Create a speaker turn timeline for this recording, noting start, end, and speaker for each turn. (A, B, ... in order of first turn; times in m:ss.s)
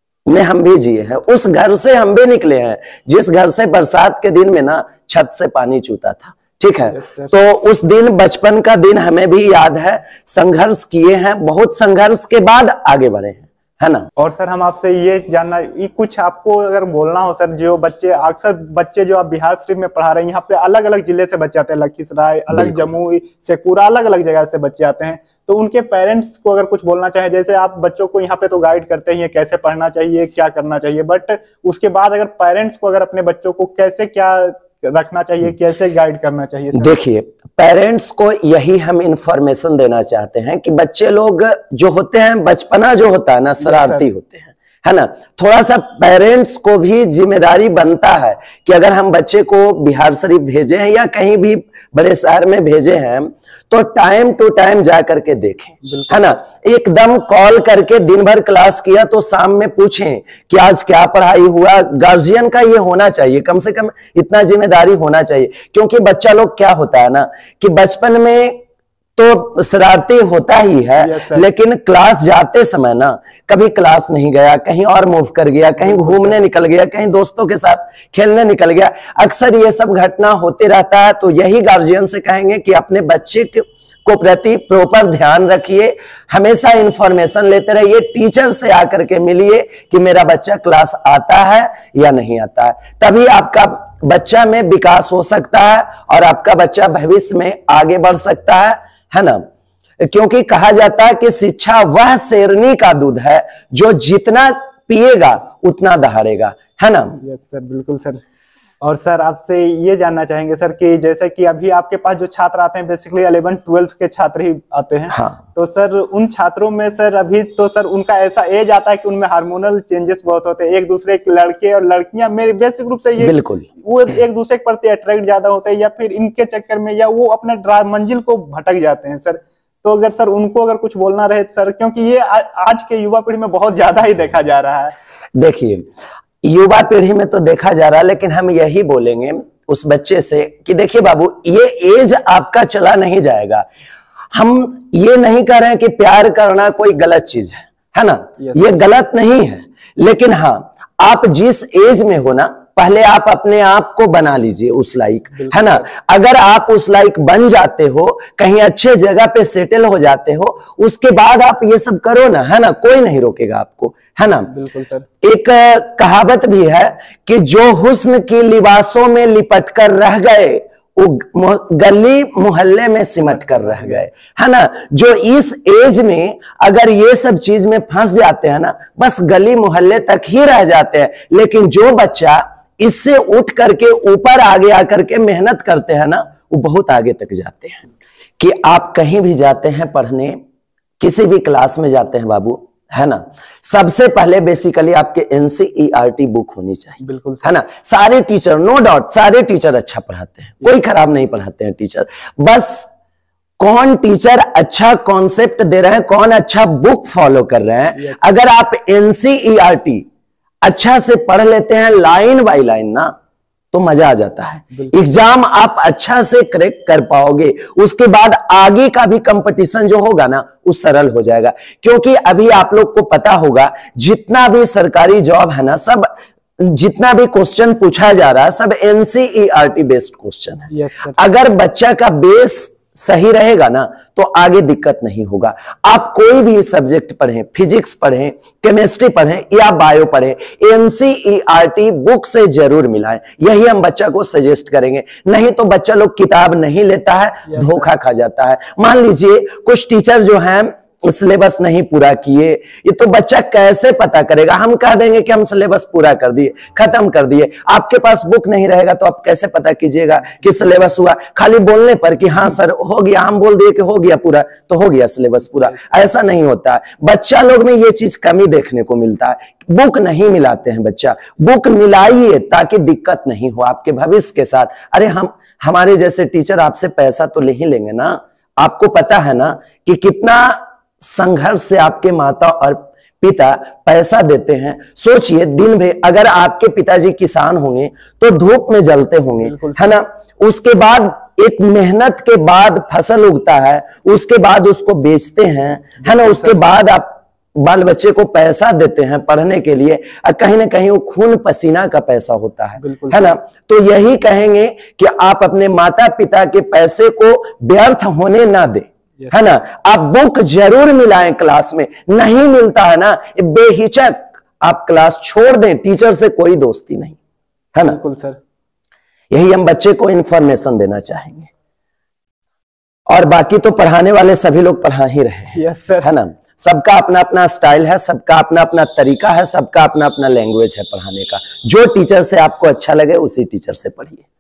0:00.3-0:14.1 A
0:06.9-0:07.3 B
0:14.2-0:36.9 B
0:22.5-0:22.9 A
0:36.7-1:08.6 A
0:43.6-0:44.0 B
0:55.8-0:56.3 B
1:09.2-1:39.4 A
1:11.0-1:11.5 B
1:15.8-1:16.4 B
1:40.0-1:47.2 A
1:47.2-1:48.2 B
1:48.8-2:14.9 B
1:55.1-1:55.4 A
2:03.2-2:03.7 A
2:15.4-2:15.9 A
2:16.4-2:23.6 A
2:24.3-2:44.5 A
2:35.4-2:35.9 B
2:44.5-2:45.1 B
2:45.2-3:07.8 A
2:53.2-2:54.0 B
3:08.4-3:10.4 A
3:11.0-3:22.9 A
3:17.0-3:17.5 B
3:23.6-3:30.1 A
3:27.9-3:28.3 B
3:30.6-3:33.1 A
3:33.7-5:17.2 A
3:50.7-3:51.2 B
4:07.5-4:07.9 B
4:49.4-4:50.0 B
4:56.0-4:56.6 B
5:02.8-5:03.3 B
5:09.2-5:09.4 B
5:17.8-5:18.4 B
5:19.3-5:21.5 A
5:23.1-5:34.2 A
5:25.5-5:26.1 B